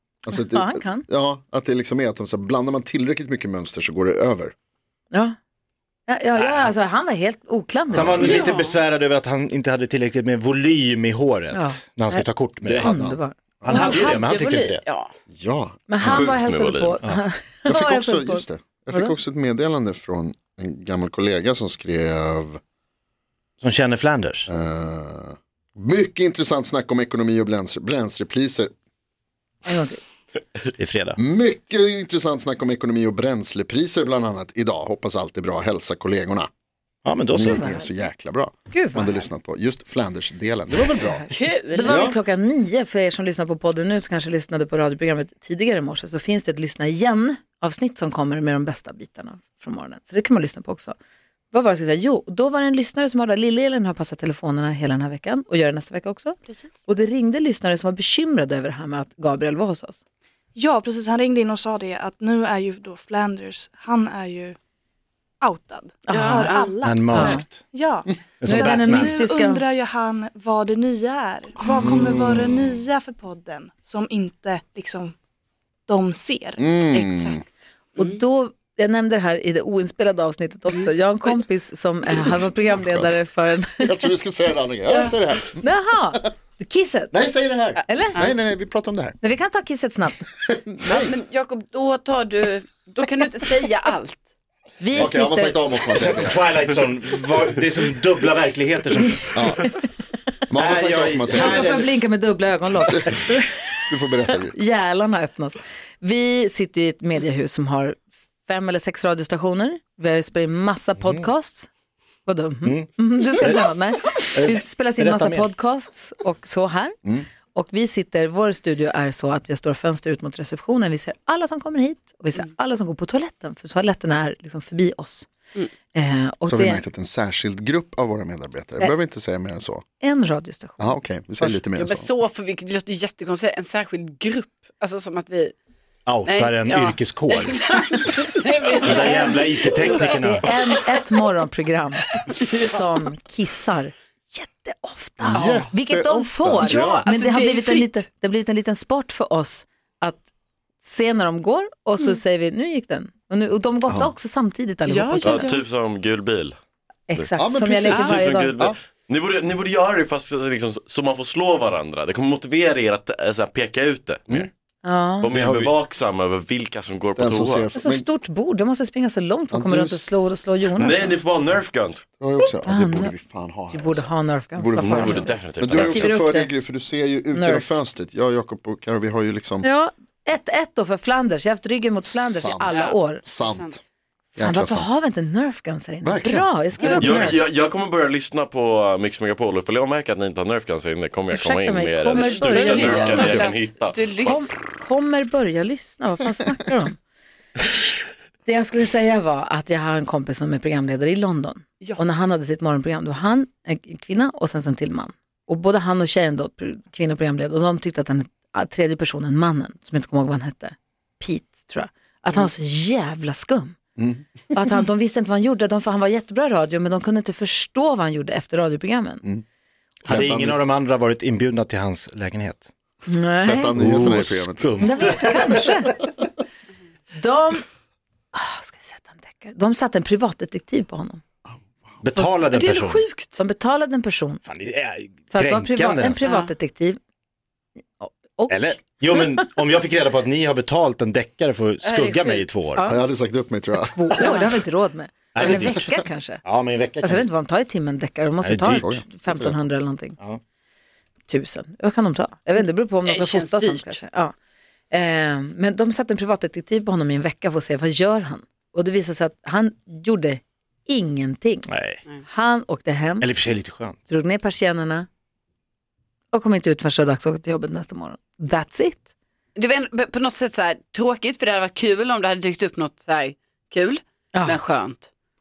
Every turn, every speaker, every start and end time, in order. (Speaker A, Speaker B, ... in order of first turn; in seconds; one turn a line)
Speaker A: 0.3-4.5
Speaker B: 0.3-1.1
Speaker B: 6.1-8.4
Speaker C: 6.4-6.7
Speaker A: 7.9-8.4
Speaker C: 7.9-13.0
Speaker D: 8.2-8.8
Speaker B: 11.5-14.2
Speaker A: 12.7-14.2
Speaker C: 13.6-14.8
Speaker D: 13.7-15.1
Speaker A: 15.3-16.4
Speaker B: 15.9-19.1
Speaker E: 16.0-17.0
Speaker A: 17.7-22.6
Speaker C: 23.6-24.5
Speaker A: 24.5-28.7
Speaker B: 29.7-30.0
Speaker C: 30.8-31.2
Speaker A: 31.2-36.5
Speaker C: 37.0-37.7
Speaker A: 37.3-41.3
Speaker B: 37.5-37.8
Speaker B: 38.7-39.2
Speaker D: 41.3-42.1
Speaker B: 41.7-51.0
Speaker A: 41.8-42.2
Speaker B: 51.5-60.0
Speaker F: 60.6-64.6
Speaker F: 65.4-75.2
Speaker B: 66.1-66.5
Speaker D: 66.1-66.8
Speaker C: 66.8-67.6
Speaker B: 67.1-67.4
Speaker C: 68.4-69.2
Speaker B: 68.4-69.7
Speaker C: 71.8-72.4
Speaker F: 75.9-76.7
Speaker A: 76.6-77.4
Speaker D: 76.9-78.2
Speaker B: 78.0-83.9
Speaker A: 82.6-85.6
Speaker D: 84.9-85.1
Speaker B: 85.6-87.1
Speaker A: 87.1-89.2
Speaker B: 87.9-88.2
Speaker B: 89.2-90.3
Speaker A: 90.3-91.2
Speaker D: 90.9-94.2
Speaker B: 94.8-95.8
Speaker A: 94.9-96.4
Speaker C: 95.9-99.3
Speaker A: 99.3-99.7
Speaker A: 100.5-101.8
Speaker C: 100.6-101.9
Speaker B: 101.3-103.8
Speaker A: 103.9-104.5
Speaker B: 104.5-111.7
Speaker B: 112.3-117.0
Speaker C: 112.7-113.7
Speaker C: 114.3-115.5
Speaker B: 117.5-125.3
Speaker B: 125.9-126.8
Speaker A: 126.5-129.8
Speaker B: 130.0-131.6
Speaker A: 130.8-132.1
Speaker D: 131.8-135.5
Speaker C: 136.1-137.8
Speaker D: 136.2-140.0
Speaker C: 138.8-140.5
Speaker B: 139.9-150.3
Speaker D: 142.3-142.6
Speaker A: 145.2-147.0
Speaker D: 146.6-148.0
Speaker B: 150.8-155.5
Speaker D: 154.9-155.6
Speaker E: 155.2-156.6
Speaker B: 157.1-158.6
Speaker A: 157.4-158.8
Speaker D: 157.9-158.1
Speaker E: 158.0-164.5
Speaker B: 164.8-165.3
Speaker E: 165.2-167.7
Speaker A: 165.3-165.7
Speaker A: 167.2-168.1
Speaker B: 167.8-171.2
Speaker A: 169.5-170.3
Speaker E: 170.8-172.0
Speaker A: 172.2-179.7
Speaker B: 172.6-173.1
Speaker B: 173.7-176.5
Speaker E: 174.8-176.2
Speaker B: 177.3-177.7
Speaker B: 179.6-183.2
Speaker A: 182.1-183.8
Speaker D: 182.7-183.8
Speaker A: 184.4-184.9
Speaker B: 184.4-187.4
Speaker A: 186.0-187.3
Speaker E: 186.9-194.5
Speaker B: 191.3-193.5
Speaker D: 192.1-194.5
Speaker A: 192.6-193.5
Speaker B: 194.2-197.0
Speaker B: 198.4-213.8
Speaker A: 214.0-214.2
Speaker B: 214.5-219.2
Speaker C: 220.0-222.7
Speaker A: 220.1-220.6
Speaker B: 223.1-223.8
Speaker A: 223.4-224.7
Speaker C: 223.8-225.9
Speaker B: 224.8-226.0
Speaker B: 227.1-227.7
Speaker B: 228.3-231.2
Speaker C: 232.0-233.1
Speaker D: 232.4-233.4
Speaker B: 233.4-234.4
Speaker C: 234.5-236.3
Speaker B: 235.3-237.0
Speaker B: 238.0-239.2
Speaker C: 238.5-242.9
Speaker D: 241.8-242.4
Speaker A: 242.9-244.4
Speaker B: 243.8-246.4
Speaker C: 245.3-245.9
Speaker C: 246.4-247.2
Speaker B: 247.0-250.2
Speaker C: 248.4-249.0
Speaker A: 248.6-249.5
Speaker B: 251.3-254.3
Speaker D: 253.1-254.0
Speaker B: 254.9-261.7
Speaker C: 261.7-262.0
Speaker B: 262.3-263.3
Speaker C: 263.2-264.0
Speaker B: 264.1-265.1
Speaker B: 266.3-269.1
Speaker D: 269.6-275.1
Speaker B: 274.3-274.6